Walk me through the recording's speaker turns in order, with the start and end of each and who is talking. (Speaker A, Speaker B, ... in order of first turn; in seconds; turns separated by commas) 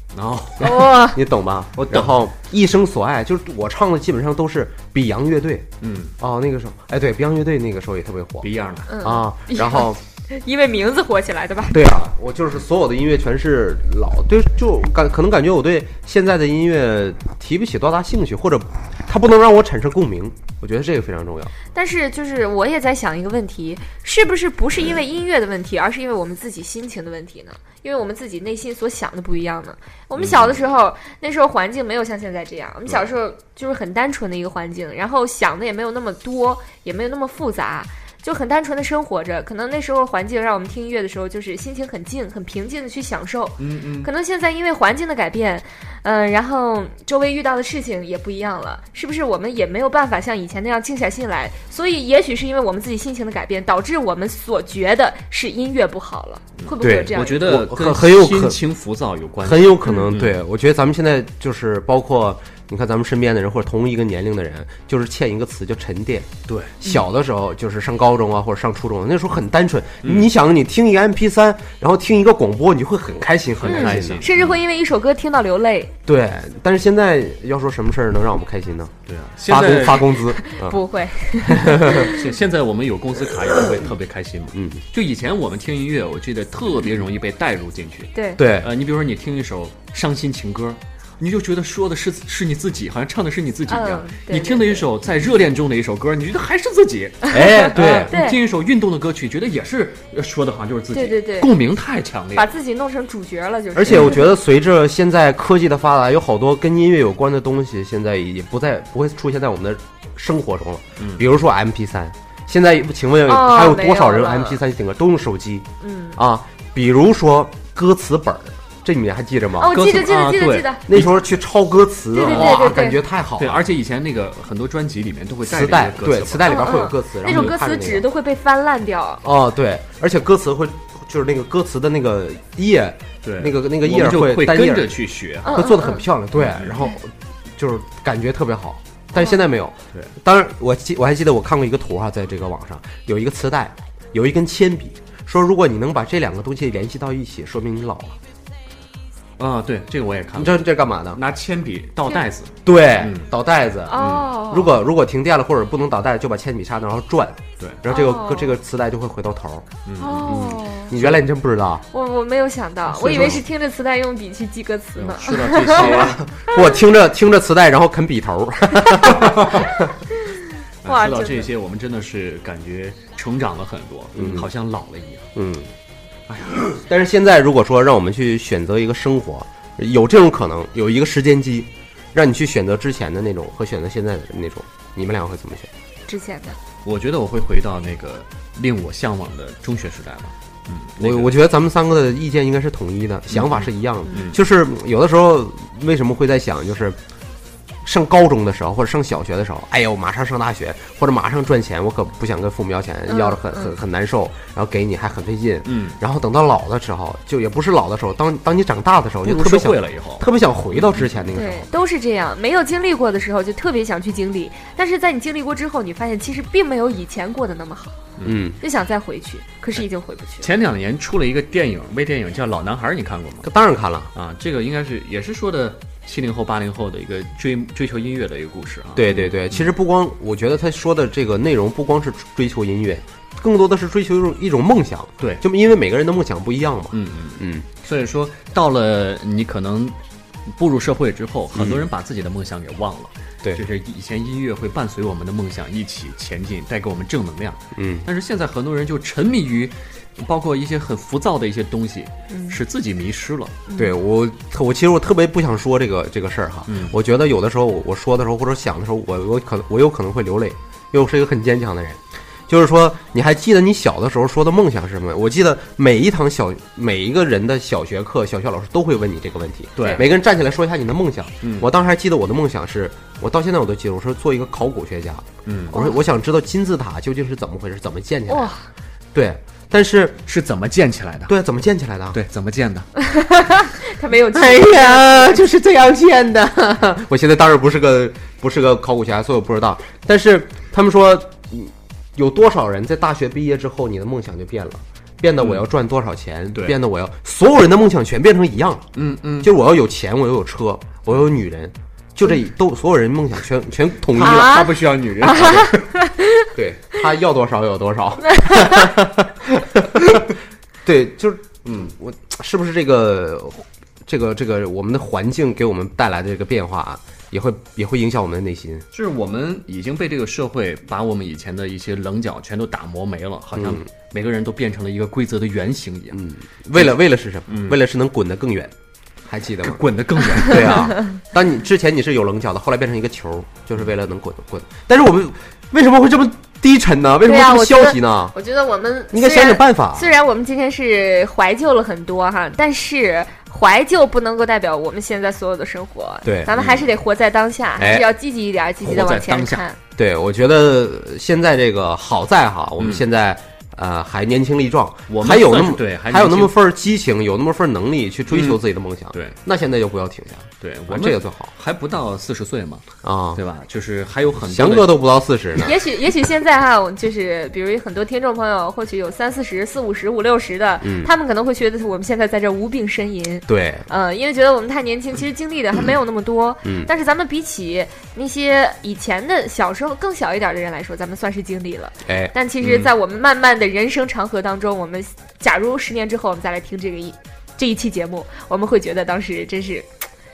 Speaker A: 0.1-0.9, Speaker B: 0.6-1.2, Speaker C: 0.7-5.7, Speaker A: 1.8-2.1, Speaker A: 5.8-6.1, Speaker C: 6.2-8.5, Speaker A: 8.4-8.9, Speaker B: 8.9-11.8, Speaker C: 9.0-10.0, Speaker C: 11.7-21.5, Speaker B: 21.7-57.6, Speaker A: 30.2-30.6, Speaker A: 43.6-44.1, Speaker A: 56.6-60.4, Speaker C: 56.8-58.6, Speaker C: 59.4-74.3, Speaker A: 66.5-66.8, Speaker A: 70.0-70.3, Speaker A: 73.6-74.6, Speaker B: 73.7-75.9, Speaker C: 76.0-78.9, Speaker A: 79.1-80.2, Speaker C: 79.5-80.8, Speaker B: 80.3-82.3, Speaker C: 81.3-82.1, Speaker A: 81.7-102.5, Speaker C: 84.5-84.8, Speaker B: 88.1-88.4, Speaker C: 88.4-88.7, Speaker B: 93.7-94.8, Speaker C: 97.3-98.2, Speaker B: 97.3-98.4, Speaker B: 100.9-101.5, Speaker B: 102.3-104.3, Speaker C: 103.7-119.8, Speaker A: 111.0-111.3, Speaker B: 113.2-114.6, Speaker B: 115.8-116.2, Speaker B: 119.6-120.8, Speaker A: 119.7-121.2, Speaker C: 120.9-123.6, Speaker B: 122.1-123.0, Speaker A: 122.2-122.7, Speaker A: 123.4-127.6, Speaker C: 125.4-128.1, Speaker B: 126.4-129.2, Speaker C: 129.2-148.2, Speaker A: 133.2-135.6, Speaker B: 135.4-136.0, Speaker A: 136.3-136.8, Speaker A: 149.4-153.3, Speaker C: 150.3-151.2, Speaker C: 152.6-159.7, Speaker B: 153.9-154.8, Speaker A: 153.9-154.3, Speaker B: 157.9-158.6, Speaker A: 159.8-161.2, Speaker B: 160.0-160.9, Speaker C: 160.2-161.8, Speaker B: 161.9-166.5, Speaker A: 162.9-163.4, Speaker C: 163.0-163.4, Speaker A: 164.9-166.3, Speaker C: 165.8-169.8, Speaker A: 169.2-169.7, Speaker A: 170.8-175.3, Speaker B: 170.8-171.5, Speaker C: 174.2-174.5, Speaker C: 175.3-175.7, Speaker A: 176.3-176.8, Speaker C: 176.8-185.7, Speaker B: 186.1-186.6, Speaker A: 186.8-191.3, Speaker C: 191.0-197.0, Speaker A: 193.3-194.4, Speaker C: 197.8-211.7, Speaker B: 203.1-203.7, Speaker A: 205.7-206.0, Speaker A: 209.2-211.3, Speaker B: 211.3-218.0, Speaker A: 218.2-218.4, Speaker C: 218.2-218.6, Speaker B: 218.6-220.5, Speaker A: 220.4-223.5, Speaker C: 223.4-224.1, Speaker A: 224.1-229.7, Speaker C: 228.9-237.7, Speaker A: 236.9-253.6, Speaker C: 241.5-241.8, Speaker C: 247.7-248.1, Speaker B: 252.3-252.6, Speaker B: 253.7-253.9, Speaker C: 253.8-278.5, Speaker A: 256.7-256.9, Speaker A: 269.8-270.1, Speaker A: 271.4-271.7, Speaker A: 275.4-275.8, Speaker B: 275.7-276.0, Speaker B: 278.3-278.6, Speaker C: 279.1-280.2, Speaker A: 280.2-281.3, Speaker C: 281.3-282.2, Speaker A: 282.1-282.9, Speaker B: 283.0-285.5, Speaker C: 284.3-298.9, Speaker A: 295.4-295.7, Speaker A: 298.9-299.5, Speaker C: 299.4-304.7, Speaker A: 304.1-305.9, Speaker B: 304.2-306.5, Speaker C: 305.3-305.7, Speaker C: 306.5-310.2, Speaker B: 308.3-308.9, Speaker C: 310.8-318.8, Speaker A: 311.6-311.9, Speaker A: 318.9-326.2, Speaker C: 323.5-323.8, Speaker C: 326.1-328.7, Speaker A: 327.5-327.8, Speaker C: 329.3-329.8, Speaker A: 329.6-330.9, Speaker C: 330.4-338.3, Speaker B: 337.2-349.8, Speaker C: 339.1-340.1, Speaker C: 346.2-346.6, Speaker A: 346.5-346.9, Speaker C: 347.8-348.1, Speaker A: 348.8-349.6, Speaker C: 350.0-361.5, Speaker A: 352.8-353.1, Speaker A: 355.1-356.6, Speaker A: 358.3-359.4, Speaker A: 360.6-365.0, Speaker C: 363.0-363.4, Speaker C: 364.4-365.7, Speaker B: 365.6-389.9, Speaker C: 370.8-371.1, Speaker C: 373.5-373.8, Speaker C: 376.6-376.9, Speaker C: 382.1-382.3, Speaker A: 382.6-382.9